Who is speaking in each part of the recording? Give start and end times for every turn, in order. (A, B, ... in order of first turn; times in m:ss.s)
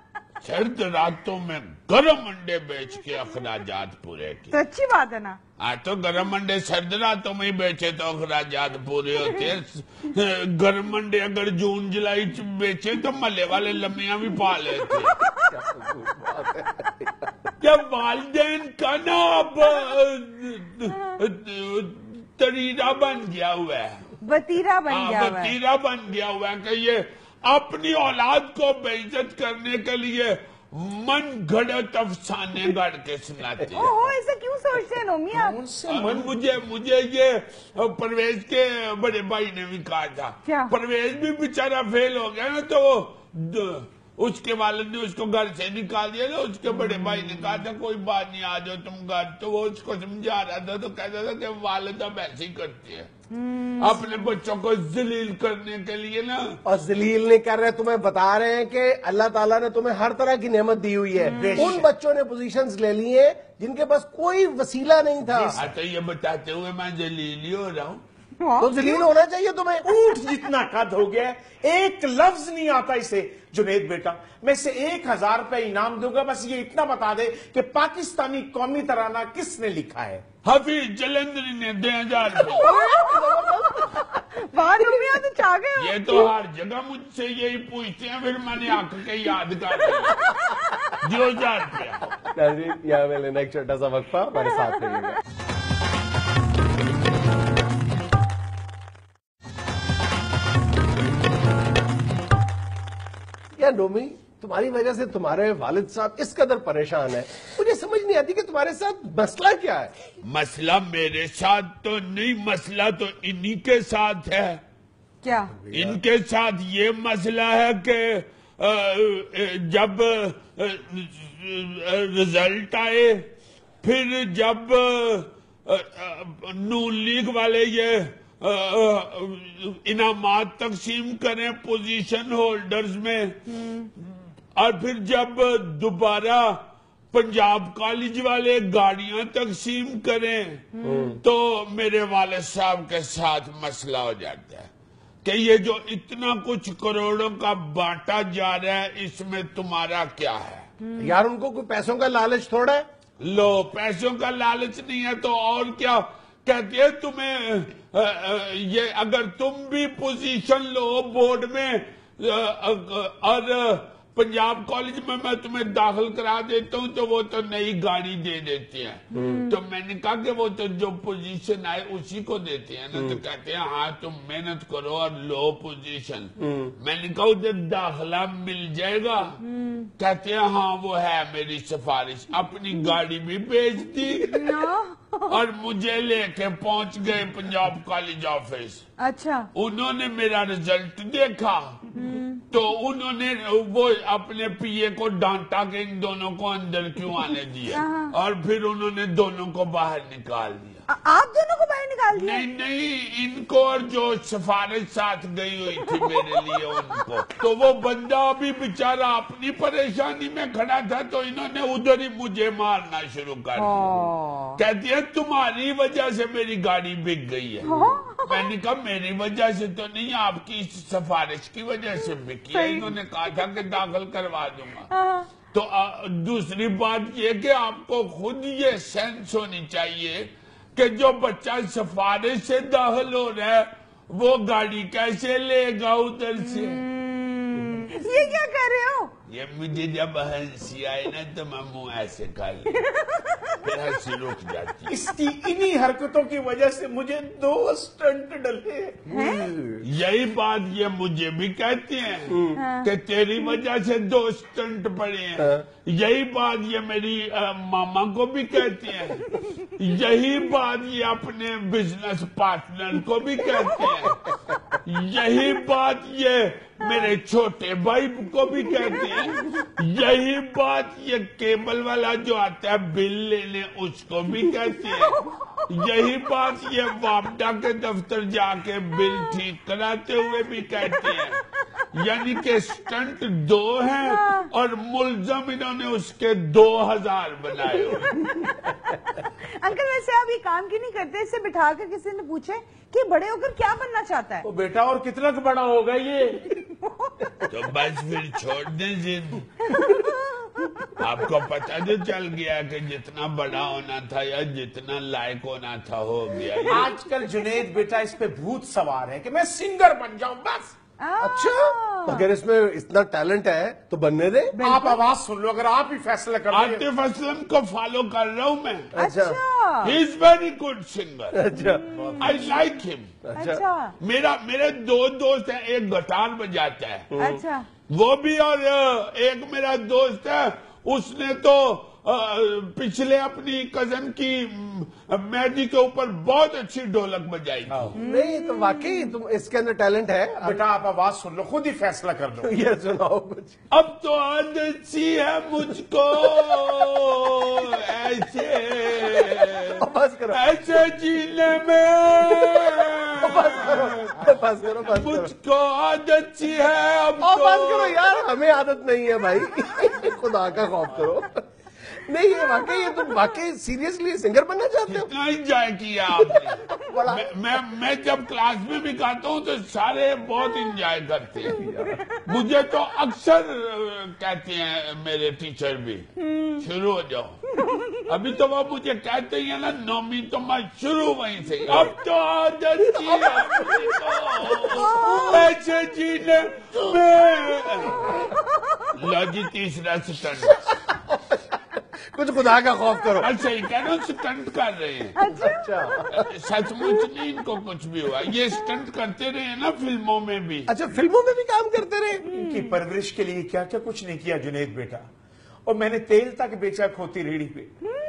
0:00.4-0:04.5 A
0:04.5-0:05.4 B
0:05.6-0:15.2 A
0:15.4-0:17.5 C
0:17.6-0:24.1 A
0:24.2-0:25.5 B
0:24.9-0:33.9 A
0:33.7-0:35.6 B
0:35.3-0:36.3 D
0:35.9-0:53.1 A
0:40.4-0:40.7 B
0:53.3-0:54.0 B
0:53.8-0:56.6 A
0:56.6-1:05.6 C
1:01.2-1:01.9 D
1:01.3-1:01.7 B
1:05.3-1:05.6 D
1:05.5-1:08.0 A
1:08.4-1:09.0 B
1:08.6-1:09.8 C
1:09.8-1:20.2 D
1:20.4-1:22.7 A
1:22.6-1:26.3 B
1:22.6-1:24.2 C
1:25.8-1:30.3 A
1:31.0-1:32.1 A
1:32.3-1:35.2 C
1:43.6-1:49.9 C
1:50.2-1:54.6 A
1:55.2-1:55.5 B
1:55.5-1:56.0 C
1:55.7-2:03.2 A
2:03.8-2:13.4 A
2:13.6-2:13.9 B
2:14.5-2:16.6 A
2:17.1-2:20.7 A
2:20.7-2:21.2 B
2:20.8-2:21.2 C
2:21.2-2:24.7 A
2:25.2-2:30.7 A
2:30.8-2:31.1 B
2:31.0-2:32.8 C
2:33.2-2:59.4 A
2:49.1-2:49.5 C
2:49.2-2:49.5 B
2:52.9-2:53.2 C
2:56.4-2:56.7 C
2:59.4-2:59.9 B
3:00.0-3:04.6 A
3:04.3-3:05.3 B
3:05.3-3:08.8 A
3:09.0-3:09.5 B
3:09.5-3:11.8 A
3:11.9-3:12.4 B
3:12.5-3:20.8 A
3:17.7-3:18.1 B
3:20.9-3:22.4 B
3:22.1-3:44.9 A
3:26.0-3:26.4 B
3:33.6-3:34.6 B
3:37.6-3:38.5 B
3:42.5-3:42.9 B
3:44.9-3:45.3 B
3:45.5-3:56.8 A
3:56.5-3:59.1 B
3:59.3-4:02.9 A
4:02.9-4:03.6 B
4:03.4-4:04.9 A
4:04.9-4:09.0 D
4:09.1-4:09.5 B
4:09.1-4:09.8 C
4:09.8-4:24.2 A
4:12.3-4:12.6 C
4:12.6-4:12.9 B
4:15.4-4:15.6 C
4:24.8-4:41.4 A
4:41.9-4:48.4 A
4:44.0-4:44.5 B
4:49.6-4:54.4 B
4:54.4-4:56.6 D
4:56.6-4:57.1 B
4:57.2-4:57.5 C
4:57.5-4:59.5 A
4:59.6-5:00.6 B
5:01.0-5:06.9 A
5:06.7-5:10.7 D
5:11.0-5:12.3 B
5:11.2-5:14.6 C
5:14.5-5:15.0 B
5:14.6-5:16.8 D
5:16.5-5:18.9 A
5:18.9-5:19.4 C
5:19.0-5:20.0 B
5:19.8-5:21.4 A
5:21.3-5:22.4 C
5:21.9-5:22.2 B
5:22.0-5:22.2 D
5:22.2-5:23.1 A
5:23.2-5:23.6 C
5:23.4-5:23.9 B
5:24.0-5:27.1 A
5:27.1-5:27.4 C
5:27.2-5:27.7 B
5:27.9-5:38.0 A
5:37.7-5:38.0 D
5:38.0-5:40.6 C
5:38.0-5:39.1 B
5:40.4-5:42.5 D
5:42.4-5:43.6 C
5:43.7-5:54.2 A
5:46.3-5:46.6 C
5:49.1-5:50.4 C
5:52.4-5:55.3 C
5:54.8-5:58.0 A
5:57.2-6:05.1 C
6:04.9-6:11.6 A
6:06.2-6:07.4 C
6:11.5-6:12.0 C
6:12.2-6:28.2 A
6:16.2-6:16.6 B
6:17.6-6:18.0 B
6:21.6-6:21.9 C
6:22.9-6:25.3 C
6:28.9-6:30.6 A
6:30.7-6:33.3 C
6:33.2-6:35.2 A
6:35.2-6:36.0 B
6:35.3-6:36.3 C
6:36.1-6:40.7 A
6:40.7-6:42.2 C
6:42.3-6:45.1 D
6:45.6-6:47.7 D